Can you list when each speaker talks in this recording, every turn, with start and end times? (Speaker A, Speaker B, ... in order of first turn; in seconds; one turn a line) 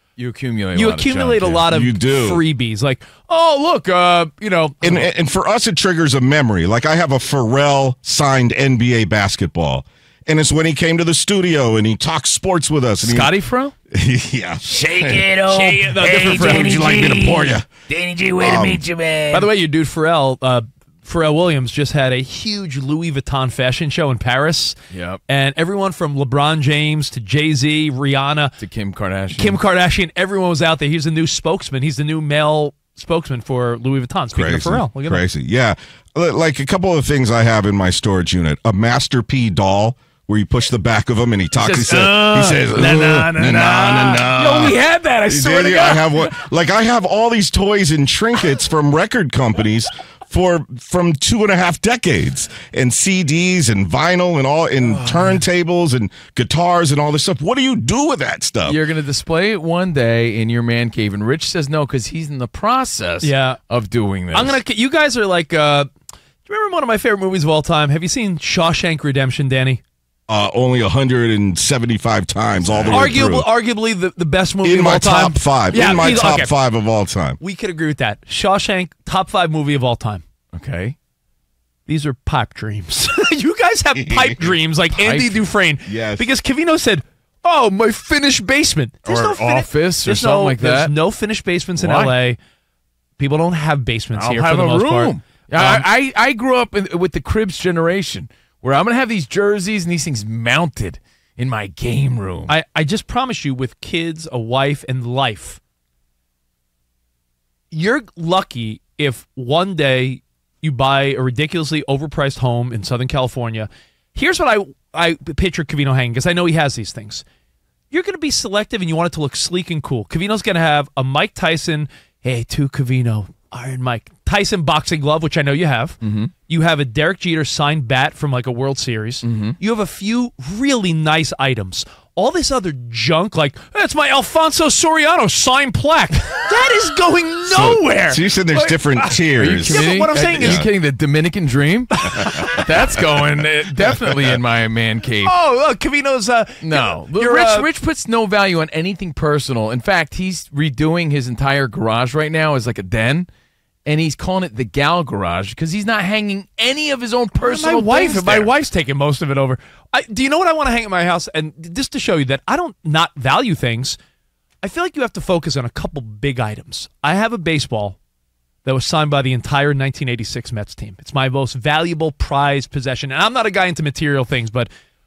Speaker A: 0.2-1.6
Speaker B: 0.7-5.1
Speaker C: 1.7-2.4
Speaker C: 4.8-13.3
Speaker A: 13.0-13.7
Speaker C: 13.9-15.3
Speaker D: 14.7-19.5
Speaker B: 15.4-17.1
Speaker C: 16.3-17.7
Speaker C: 18.4-18.8
Speaker B: 19.3-24.7
Speaker A: 24.9-25.2
Speaker B: 25.3-28.5
Speaker A: 28.6-29.6
Speaker B: 29.3-35.2
Speaker C: 34.3-58.8
Speaker A: 41.5-46.3
Speaker A: 54.9-55.4
Speaker A: 58.6-64.6
Speaker B: 63.2-63.6
Speaker B: 64.3-65.9
Speaker B: 66.5-69.8
Speaker C: 70.3-73.5
Speaker A: 72.5-73.2
Speaker B: 72.9-76.5
Speaker C: 74.6-77.4
Speaker B: 77.4-80.2
Speaker A: 80.5-80.9
Speaker B: 81.9-92.4
Speaker C: 84.0-84.3
Speaker A: 84.9-85.5
Speaker C: 85.8-86.3
Speaker A: 89.0-90.9
Speaker A: 91.8-92.1
Speaker B: 93.2-95.8
Speaker A: 94.1-102.5
Speaker B: 102.5-105.6
Speaker B: 107.7-117.2
Speaker B: 117.9-140.7
Speaker A: 126.0-126.3
Speaker A: 129.2-129.6
Speaker C: 137.5-140.7
Speaker A: 139.4-145.3
Speaker B: 141.9-142.6
Speaker C: 142.2-142.6
Speaker B: 145.2-147.7
Speaker A: 146.6-153.3
Speaker A: 153.8-158.5
Speaker B: 157.4-164.0
Speaker B: 164.6-168.0
Speaker B: 168.6-174.7